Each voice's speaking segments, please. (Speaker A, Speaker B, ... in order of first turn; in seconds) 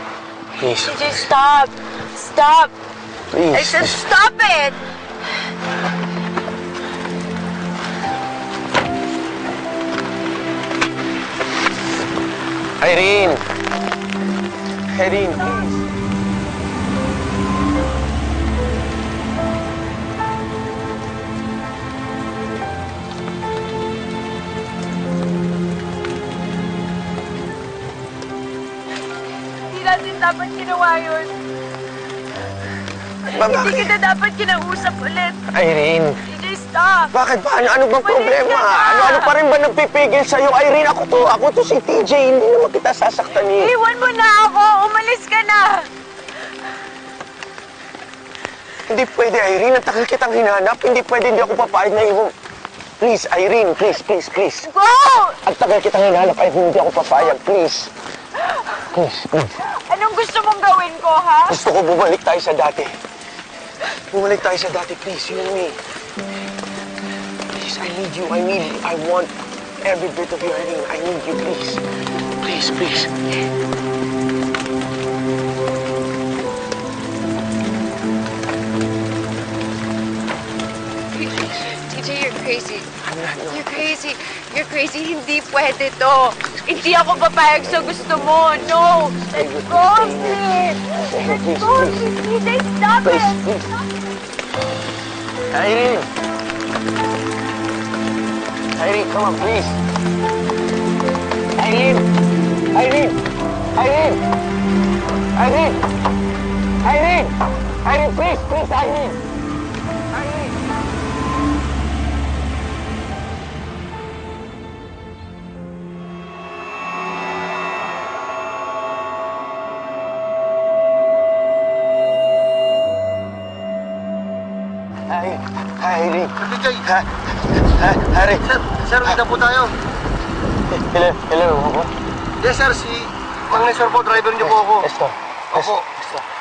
Speaker A: 0.5-1.3, 3.3-4.0, 12.8-13.4, 14.9-15.9, 33.3-34.0, 35.5-36.2, 37.1-43.7, 48.9-52.3, 53.0-54.7, 55.4-57.9, 58.8-59.6, 61.5-63.0, 63.9-65.8, 67.5-73.2, 83.0-83.9, 89.1-92.1, 93.0-93.7, 95.5-96.1, 98.7-99.8, 101.6-102.1, 102.7-104.2, 105.3-106.0, 106.8-109.2, 110.1-110.5, 125.1-129.2, 130.7-131.9, 134.3-136.2
Speaker B: 0.7-2.7, 3.5-4.8, 29.6-31.3, 33.2-35.5, 36.2-37.1, 37.8-39.4, 43.4-45.9, 54.6-55.4, 58.5-58.9, 59.6-61.6, 81.1-82.9, 83.5-93.9
Speaker C: 126.4-126.8, 128.5-129.8, 132.4-134.9, 135.5-135.9